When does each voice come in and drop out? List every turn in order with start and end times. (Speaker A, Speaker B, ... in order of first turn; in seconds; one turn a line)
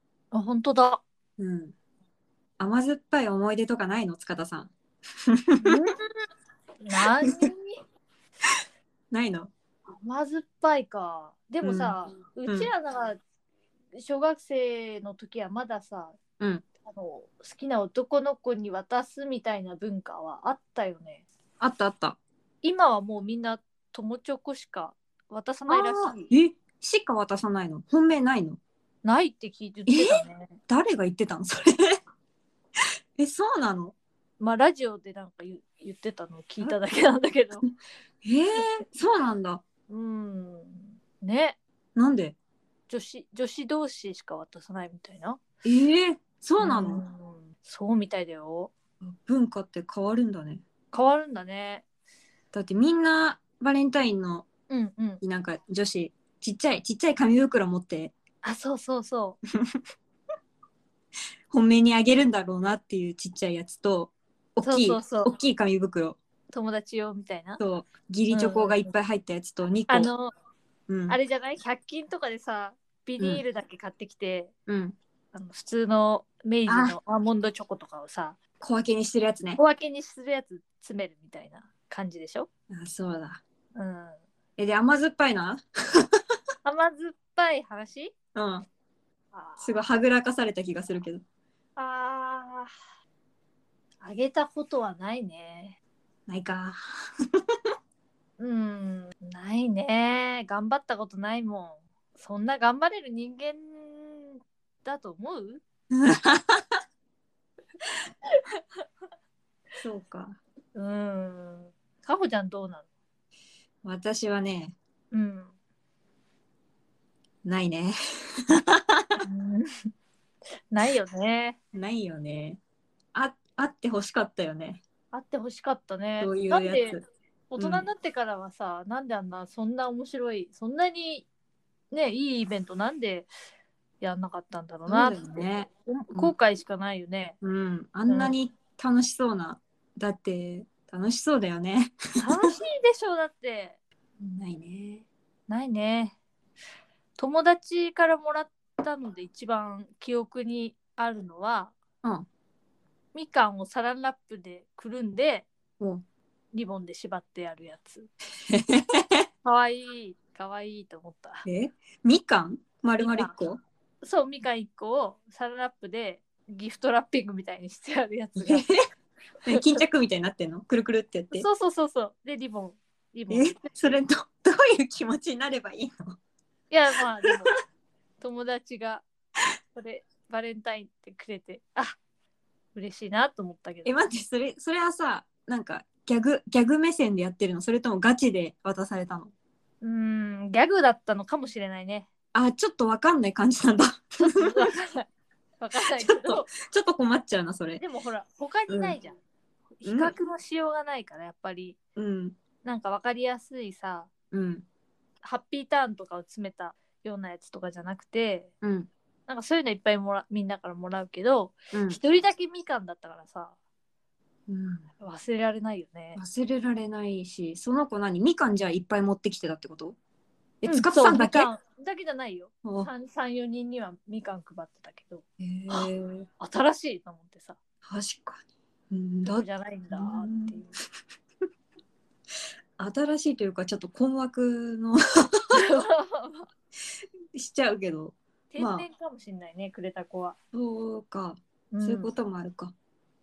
Speaker A: 0.3-1.0
Speaker B: 1.4-1.7
Speaker B: 2.6-4.7
Speaker B: 5.3-5.9
Speaker A: 5.6-6.1
Speaker A: 6.8-7.8
Speaker B: 9.1-9.5
Speaker A: 9.9-13.2
Speaker B: 11.6-11.9
Speaker A: 13.9-16.2
Speaker A: 16.8-21.2
Speaker B: 21.6-22.2
Speaker A: 22.6-26.3
Speaker B: 25.7-28.6
Speaker A: 29.0-30.6
Speaker B: 29.9-32.0
Speaker B: 33.2-33.9
Speaker A: 34.4-37.7
Speaker B: 38.2-39.6
Speaker A: 39.9-41.6
Speaker B: 42.0-42.4
Speaker A: 42.9-45.4
Speaker B: 45.6-47.0
Speaker A: 46.6-48.7
Speaker B: 49.0-50.6
Speaker A: 50.9-51.8
Speaker B: 52.5-54.5
Speaker A: 54.7-55.2
Speaker B: 55.2-58.1
Speaker A: 58.4-59.4
Speaker B: 61.5-66.2
Speaker A: 64.6-65.4
Speaker A: 66.5-67.6
Speaker B: 67.6-70.1
Speaker A: 68.3-68.9
Speaker A: 69.9-70.3
Speaker B: 70.9-71.2
Speaker A: 71.1-74.5
Speaker B: 74.7-75.0
Speaker A: 75.3-78.4
Speaker B: 76.7-77.0
Speaker B: 78.6-79.6
Speaker A: 79.5-82.5
Speaker B: 82.7-83.4
Speaker A: 83.7-84.2
Speaker B: 84.6-86.0
Speaker A: 86.6-88.1
Speaker B: 88.3-88.7
Speaker A: 89.3-89.8
Speaker B: 89.6-91.2
Speaker A: 91.8-92.7
Speaker A: 94.0-95.8
Speaker B: 96.3-96.8
Speaker A: 98.4-105.6
Speaker B: 105.9-106.6
Speaker B: 109.8-110.4
Speaker A: 110.7-112.9
Speaker B: 113.8-114.7
Speaker A: 115.1-115.5
Speaker B: 117.4-117.9
Speaker B: 118.5-119.2
Speaker A: 119.2-119.9
Speaker A: 120.7-121.6
Speaker B: 121.7-122.6
Speaker B: 123.1-124.8
Speaker A: 125.1-131.3
Speaker B: 126.2-127.0
Speaker B: 127.6-127.9
Speaker A: 131.9-133.3
Speaker A: 134.0-137.4
Speaker B: 134.9-136.3
Speaker B: 137.4-142.3
Speaker A: 138.1-138.3
Speaker A: 142.2-143.8
Speaker B: 144.2-145.0
Speaker A: 145.5-146.2
Speaker A: 147.2-151.8
Speaker A: 153.1-155.5
Speaker B: 155.8-156.0
Speaker A: 156.5-158.1
Speaker B: 158.5-159.2
Speaker A: 159.4-161.4
Speaker B: 161.4-163.6
Speaker A: 163.0-163.3
Speaker A: 164.0-168.6
Speaker B: 168.4-168.8
Speaker B: 169.4-171.5
Speaker A: 169.4-169.8
Speaker A: 171.3-173.6
Speaker B: 173.3-176.2
Speaker A: 176.7-177.5
Speaker A: 178.2-179.0
Speaker A: 179.7-182.0
Speaker A: 182.7-183.9
Speaker B: 183.8-189.3
Speaker A: 189.8-192.1
Speaker B: 192.3-194.7
Speaker A: 194.2-195.1
Speaker A: 195.6-196.5
Speaker B: 195.9-197.8
Speaker A: 197.8-199.2
Speaker B: 198.7-199.0
Speaker A: 199.8-201.8
Speaker B: 199.8-200.1
Speaker B: 201.9-202.4
Speaker A: 202.6-204.1
Speaker B: 204.3-204.6
Speaker A: 205.2-208.5
Speaker B: 208.6-208.9
Speaker A: 209.3-213.5
Speaker B: 211.7-212.0
Speaker B: 214.5-214.8
Speaker A: 215.0-216.2
Speaker B: 216.2-220.0
Speaker B: 220.6-221.5
Speaker A: 220.6-225.9
Speaker B: 222.6-222.9
Speaker B: 225.4-226.3
Speaker A: 226.4-227.6
Speaker B: 227.8-230.6
Speaker A: 229.2-230.7
Speaker B: 232.8-235.9
Speaker A: 235.5-236.5
Speaker B: 237.3-238.8
Speaker A: 238.5-240.3
Speaker B: 240.5-242.7
Speaker A: 241.7-242.1